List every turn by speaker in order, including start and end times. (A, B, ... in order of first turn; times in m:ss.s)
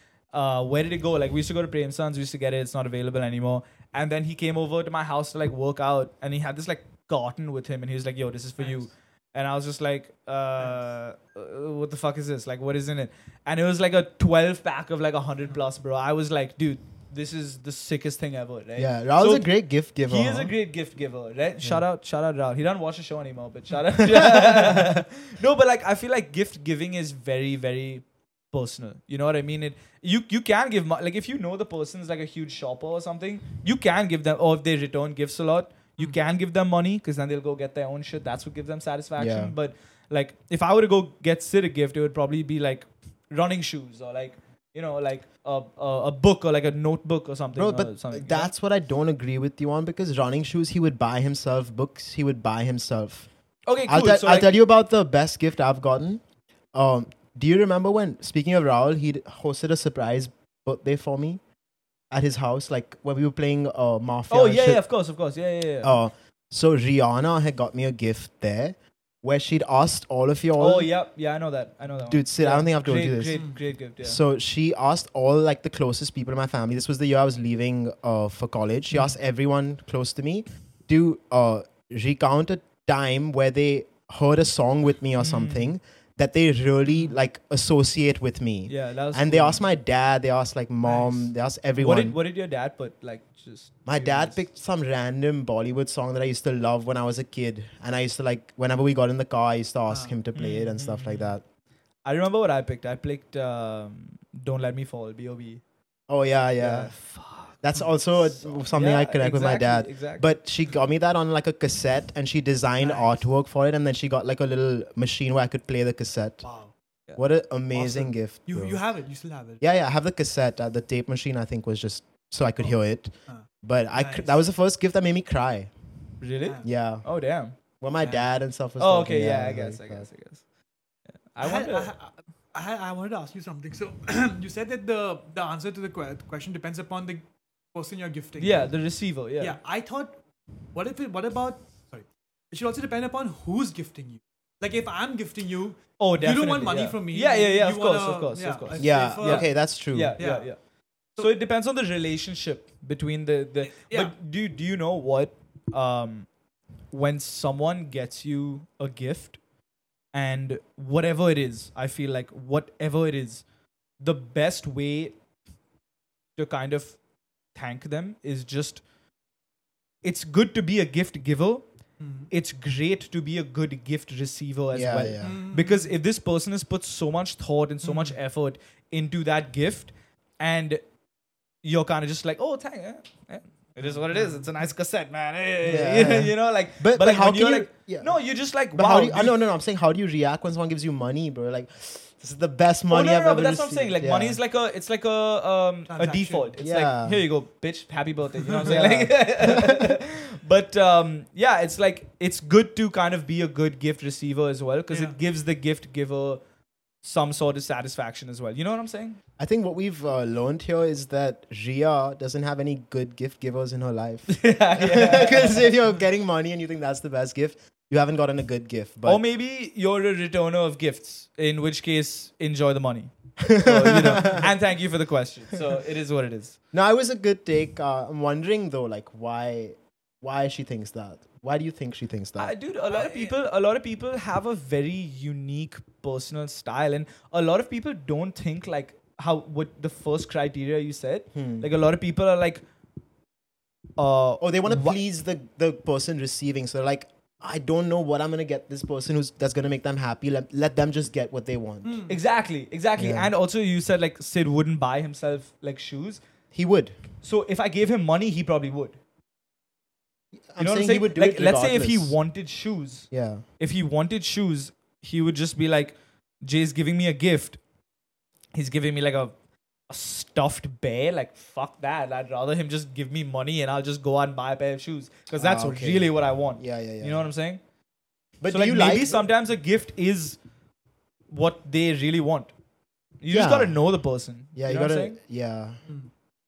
0:00.3-0:48.5 A
0:08.6-0:08.8 B
0:18.8-0:20.5 C
0:24.3-0:24.8 C
0:39.2-0:39.5 C
0:47.5-0:53.3 C
0:53.6-0:54.5 A
0:53.8-0:56.2 C
0:56.7-1:01.4 C
1:02.1-1:04.9 C
1:04.3-1:05.9 A
1:05.8-1:10.9 C
1:10.6-1:14.2 A
1:12.1-1:13.5 C
1:13.3-1:13.6 B
1:14.0-1:32.2 C
1:25.2-1:25.7 A
1:28.7-1:29.6 A
1:30.8-1:31.3 B
1:31.8-1:34.4 A
1:33.8-1:41.4 C
1:39.9-1:40.2 B
1:40.3-1:41.1 A
1:42.0-1:45.6 A
1:46.1-1:47.0 C
1:46.6-1:50.3 A
1:47.6-1:56.5 C
1:52.8-1:53.2 B
1:56.4-1:56.7 B
1:57.2-1:58.8 C
1:57.7-1:59.6 B
1:59.6-2:05.7 C
2:02.6-2:04.4 B
2:06.2-2:07.5 A
2:06.6-2:07.0 C
2:07.8-2:10.1 C
2:08.8-2:10.4 A
2:11.3-2:11.9 A
2:11.4-2:18.7 B
2:18.4-2:19.6 A
2:19.4-2:20.2 B
2:20.7-2:29.6 B
2:26.0-2:30.6 A
2:28.8-2:30.2 C
2:30.2-2:30.5 B
2:31.1-2:36.3 A
2:33.7-2:34.1 B
2:36.9-2:39.4 A
2:40.1-2:43.4 A
2:44.0-2:45.2 A
2:46.4-2:47.0 A
2:47.5-2:48.8 A
2:50.0-2:51.6 A
2:52.0-2:52.3 B
2:52.3-3:00.8 A
2:54.7-2:55.4 C
2:55.2-2:55.9 B
2:57.8-2:58.2 B
3:01.6-3:09.4 A
3:03.9-3:04.5 B
3:05.6-3:14.4 C
3:12.9-3:26.4 A
3:15.9-3:16.5 B
3:16.6-3:17.2 C
3:18.5-3:18.7 B
3:18.6-3:19.9 C
3:24.9-3:25.2 B
3:27.0-3:29.2 A
3:29.4-3:39.2 C
3:34.3-3:35.7 A
3:39.0-3:46.6 A
3:43.5-3:44.4 C
3:46.7-3:52.5 C
3:52.4-4:02.6 A
3:52.8-3:53.3 B
4:01.3-4:01.7 C
4:04.0-4:05.0 A
4:04.4-4:12.0 C
4:11.8-4:12.2 B
4:12.1-4:16.2 A
4:13.0-4:13.3 C
4:16.5-4:17.0 C
4:17.2-4:19.0 A
4:20.5-4:22.2 C
4:20.6-4:27.6 A
4:23.1-4:23.4 C
4:28.5-4:29.3 A
4:29.9-4:37.6 A
4:35.3-4:37.2 C
4:38.4-4:39.2 C
4:38.5-4:40.4 A
4:41.3-4:42.5 A
4:43.2-4:45.2 A
4:43.3-4:43.8 C
4:44.5-4:45.8 C